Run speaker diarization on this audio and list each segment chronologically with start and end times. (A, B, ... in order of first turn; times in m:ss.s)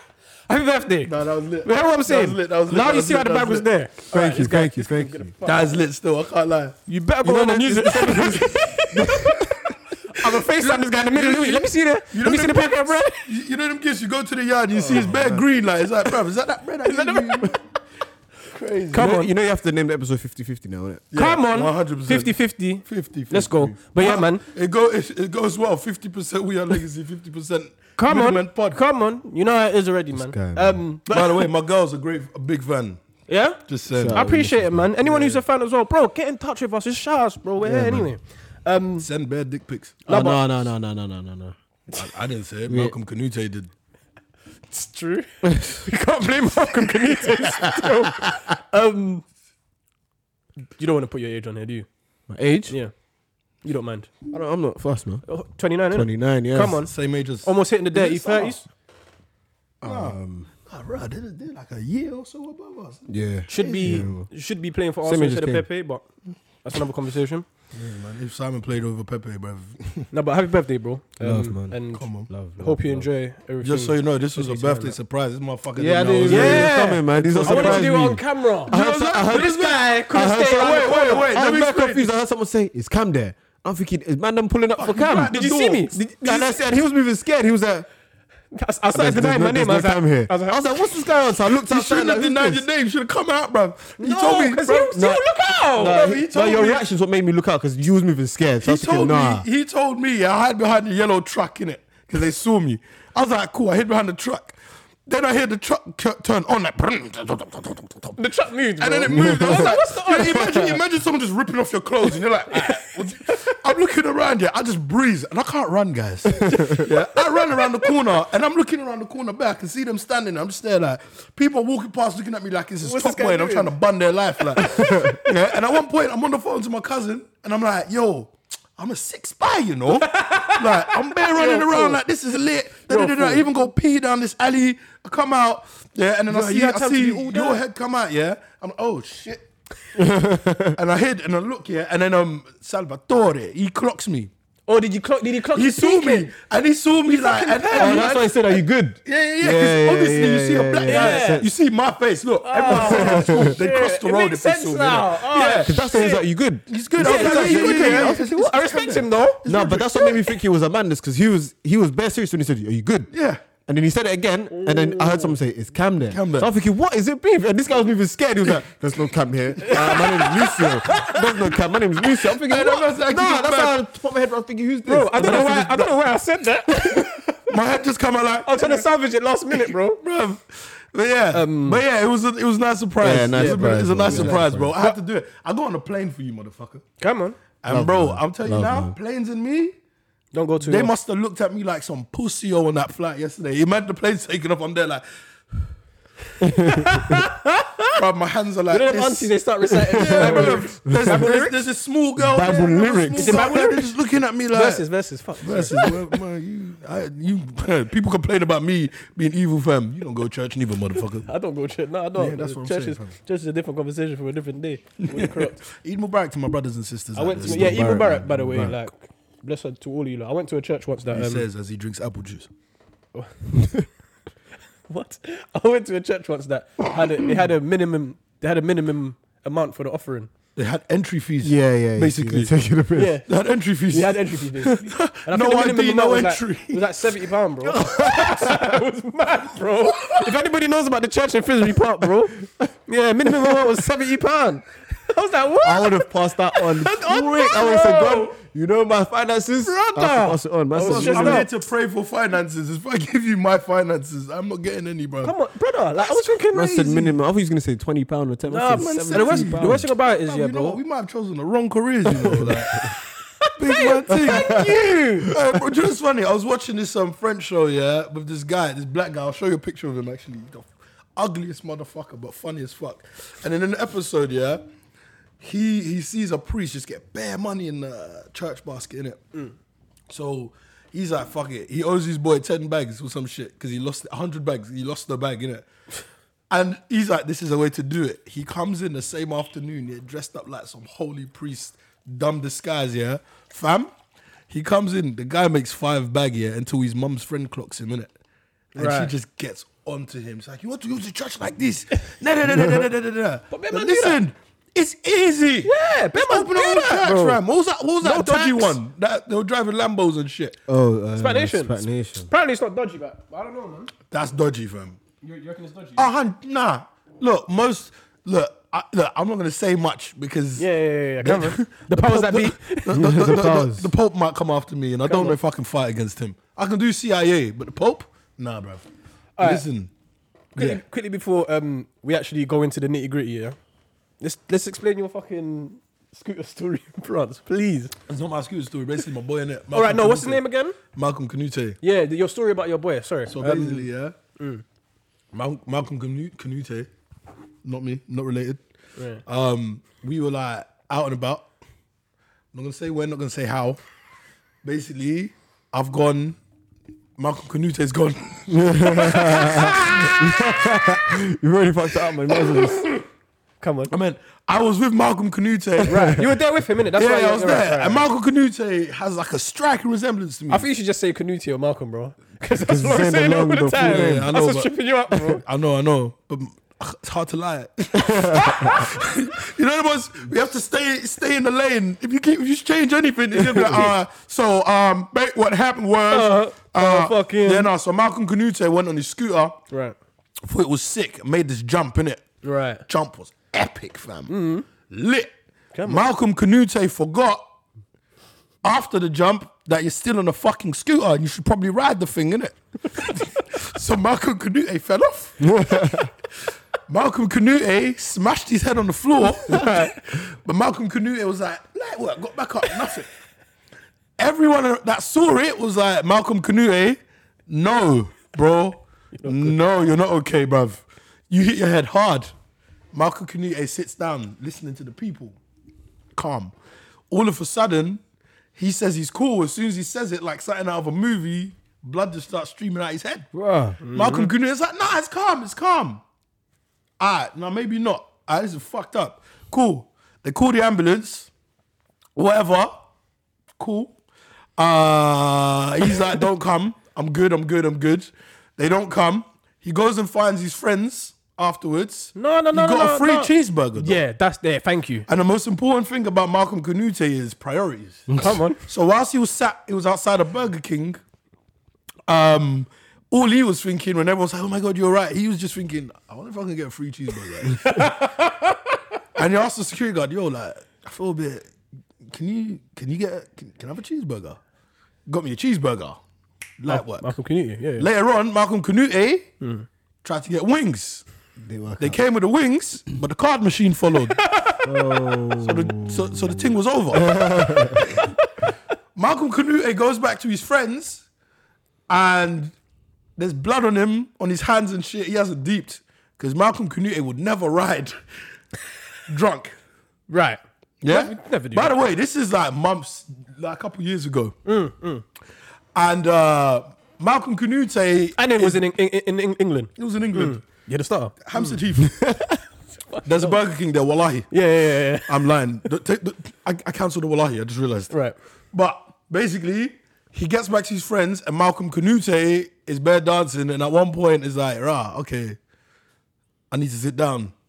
0:00.5-0:05.8 A
0:01.0-0:03.7 B
0:04.1-0:05.3 C
0:05.4-0:06.8 B
0:06.9-0:09.4 A
0:07.2-0:09.6 C
0:10.1-0:13.3 A
0:10.2-0:17.6 B
0:14.8-0:15.4 C
0:16.8-0:17.6 A
0:18.4-0:19.1 B
0:18.9-0:19.3 A
0:18.9-0:21.0 C
0:21.1-0:28.8 B
0:21.1-0:24.4 A
0:28.0-0:31.5 A
0:30.1-0:30.8 C
0:31.1-0:33.0 B
0:33.3-0:39.1 A
0:33.7-0:34.3 B
0:33.9-0:35.0 C
0:35.0-0:35.4 B
0:37.6-0:38.1 C
0:39.0-0:40.0 B
0:40.0-0:40.5 A
0:40.1-0:41.5 C
0:41.9-0:43.7 B
0:42.7-0:42.9 C
0:44.7-0:49.2 A
0:45.4-0:45.8 C
0:50.8-0:51.9 A
0:52.3-0:52.8 C
0:53.6-0:54.2 A
0:54.3-0:55.2 C
0:55.3-0:58.6 A
0:55.9-0:56.8 C
0:56.8-0:58.6 B
0:59.8-1:00.5 C
0:59.8-1:04.1 B
1:03.1-1:04.3 C
1:03.5-1:06.1 A
1:05.0-1:05.6 C
1:06.6-1:07.4 A
1:07.7-1:10.1 B
1:10.1-1:15.0 A
1:11.2-1:13.1 C
1:11.9-1:12.3 B
1:13.6-1:18.1 B
1:15.8-1:27.9 C
1:16.2-1:21.3 A
1:18.7-1:22.1 B
1:24.8-1:25.9 B
1:25.2-1:26.6 A
1:28.5-1:30.6 A
1:28.9-1:32.6 C
1:31.6-1:34.9 B
1:34.0-1:36.2 A
1:34.9-1:39.4 C
1:35.8-1:36.8 B
1:38.6-1:48.2 B
1:48.2-1:50.8 A
1:48.8-2:19.5 B
1:49.1-1:49.8 C
1:52.5-1:53.6 A
1:56.4-1:56.8 C
1:56.5-1:57.9 A
2:02.8-2:03.7 A
2:04.6-2:05.2 C
2:10.0-2:12.0 A
2:12.9-2:13.5 A
2:16.3-2:17.6 A
2:19.9-2:20.8 C
2:20.7-2:24.3 B
2:24.7-2:26.3 A
2:25.5-2:28.5 B
2:27.0-2:28.2 A
2:27.7-2:31.5 C
2:29.0-2:35.8 B
2:30.8-2:31.4 A
2:32.4-2:36.2 A
2:32.6-2:33.6 C
2:35.6-2:38.2 C
2:36.7-2:40.2 B
2:37.0-2:39.4 A
2:39.4-2:43.1 C
2:43.1-2:43.4 B
2:43.6-2:55.9 C
2:44.5-2:45.4 A
2:46.1-2:46.5 B
2:49.6-2:51.5 A
2:52.4-2:53.8 B
2:54.8-2:57.5 A
2:55.2-2:55.9 B
2:57.5-2:58.9 B
2:58.4-3:00.0 A
2:59.6-3:06.8 B
3:01.3-3:01.8 A
3:03.0-3:04.7 C
3:03.3-3:05.0 A
3:07.0-3:07.4 A
3:07.6-3:09.7 B
3:07.7-3:08.9 C
3:10.3-3:10.9 A
3:10.6-3:15.0 B
3:16.4-3:17.2 C
3:16.7-3:17.9 A
3:17.9-3:19.3 B
3:18.7-3:21.6 A
3:19.7-3:21.3 C
3:19.9-3:24.8 B
3:22.2-3:23.7 C
3:23.2-3:23.9 A
3:24.5-3:26.2 A
3:25.4-3:31.3 B
3:31.2-3:35.6 A
3:32.2-3:33.1 B
3:35.0-3:37.9 B
3:37.1-3:41.5 A
3:37.4-3:38.8 C
3:41.1-3:42.5 B
3:43.6-3:43.8 C
3:44.9-3:50.3 A
3:50.6-3:52.5 B
3:51.4-3:53.2 C
3:52.9-3:53.3 A
3:53.2-3:57.0 B
3:53.9-4:08.4 A
3:57.6-3:58.6 C
4:00.0-4:00.3 B
4:02.0-4:02.6 C
4:03.3-4:03.8 C
4:05.6-4:11.5 C
4:09.6-4:11.5 A
4:10.8-4:15.3 B
4:15.2-4:17.0 A
4:16.5-4:19.9 C
4:18.5-4:20.8 A
4:18.7-4:22.8 B
4:22.1-4:22.9 C
4:22.7-4:25.3 A
4:23.6-4:34.6 B
4:24.1-4:24.7 C
4:35.4-4:39.2 B
4:40.1-4:45.7 B
4:46.5-4:53.9 B
4:54.5-4:58.1 B
4:58.7-5:10.6 B
4:58.8-4:59.1 A
5:03.5-5:04.2 A
5:05.6-5:07.4 A
5:08.0-5:08.8 A
5:10.7-5:12.3 C
5:11.2-5:13.9 A
5:14.1-5:15.0 B
5:15.2-5:16.0 A
5:16.0-5:20.7 B
5:20.6-5:23.0 A
5:21.2-5:28.8 B
5:22.9-5:23.9 C
5:25.1-5:25.4 A
5:29.4-5:29.6 A
5:29.4-5:29.9 B
5:30.6-5:30.8 B
5:30.6-5:33.6 A
5:34.2-5:37.9 A
5:38.1-5:41.8 B
5:39.7-5:40.8 A
5:41.8-5:44.6 A
5:43.3-5:44.2 B
5:45.3-5:46.9 B
5:47.6-5:48.6 B
5:49.0-5:49.2 A
5:49.2-5:51.5 B
5:52.5-5:53.8 B
5:54.6-5:56.4 B
5:57.2-6:00.5 B
5:58.5-6:02.9 C
6:02.5-6:03.0 A
6:03.6-6:03.9 A
6:03.9-6:06.2 B
6:05.8-6:06.3 C
6:05.8-6:08.0 A
6:07.0-6:10.6 B
6:10.5-6:15.4 A
6:12.6-6:14.3 C
6:13.8-6:29.6 B
6:18.0-6:18.7 C
6:18.4-6:18.9 A
6:26.1-6:27.7 A
6:30.5-6:32.3 B
6:32.4-6:32.8 A
6:32.8-6:35.3 B
6:34.3-6:34.7 A
6:35.7-6:36.0 A
6:35.8-6:37.4 B
6:38.6-6:46.0 B
6:45.4-6:46.1 C
6:46.9-6:53.1 B
6:49.5-6:49.9 A
6:54.2-7:02.3 B
6:59.2-6:59.5 A
7:02.9-7:05.4 B
7:06.1-7:06.5 B
7:07.1-7:08.0 B
7:08.5-7:13.3 B
7:13.3-7:13.8 C
7:13.8-7:14.3 A
7:13.9-7:16.0 B
7:17.0-7:21.3 B
7:22.2-7:22.8 B
7:23.6-7:23.9 B
7:24.6-7:34.0 B
7:32.2-7:35.1 A
7:35.1-7:41.0 B
7:38.1-7:38.3 C
7:38.2-7:38.6 A
7:42.1-7:47.9 B
7:47.5-7:48.6 A
7:49.2-7:51.5 B
7:52.1-7:54.4 B
7:55.1-7:56.0 B
7:56.6-7:57.1 B
7:56.7-7:57.9 A
7:57.8-7:59.3 B
7:59.4-7:59.6 A
8:00.0-8:01.0 B
8:01.4-8:02.0 C
8:01.8-8:04.2 B
8:04.1-8:04.7 A
8:04.6-8:07.8 C
8:05.4-8:08.1 B
8:08.9-8:11.0 B
8:11.9-8:12.5 B
8:13.2-8:18.0 B
8:19.1-8:19.6 B
8:20.1-8:21.8 A
8:20.8-8:24.3 B
8:24.4-8:25.0 A
8:25.7-8:28.6 B
8:28.2-8:31.6 A
8:29.8-8:30.4 B
8:31.2-8:32.0 B
8:31.9-8:32.4 C
8:32.9-8:33.4 A
8:33.0-8:34.3 B
8:34.3-8:35.2 A
8:35.0-8:37.9 B
8:38.5-8:45.4 B
8:46.5-8:47.3 B